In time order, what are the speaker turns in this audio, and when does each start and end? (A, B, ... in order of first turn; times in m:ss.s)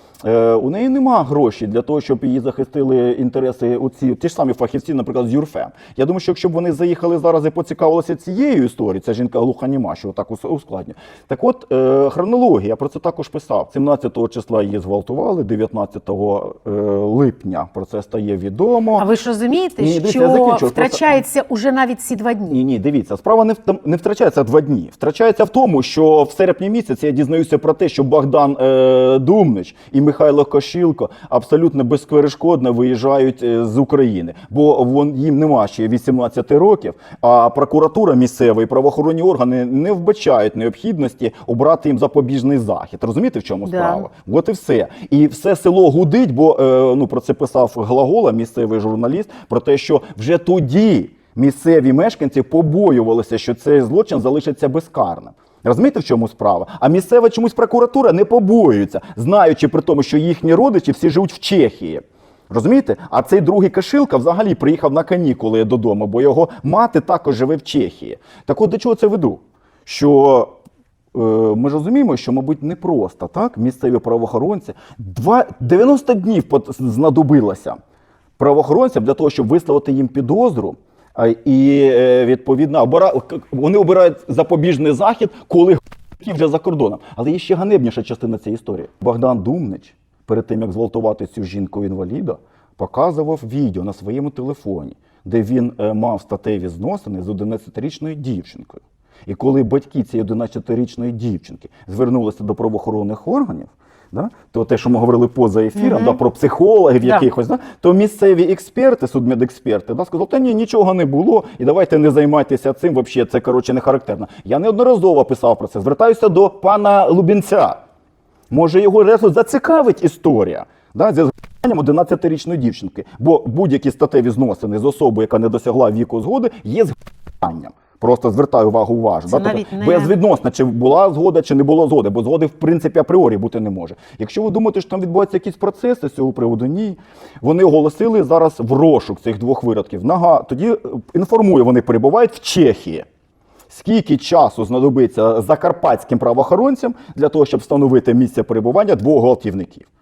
0:00.2-0:19.0 A
0:19.0-0:22.6 B
0:19.8-0:21.2 A
0:22.5-1:10.5 A
0:43.6-0:44.0 B
1:11.1-1:17.8 A
1:18.4-1:57.8 A
1:45.8-1:46.2 B
1:58.5-2:23.1 A
2:09.3-2:10.1 B
2:23.7-2:29.9 A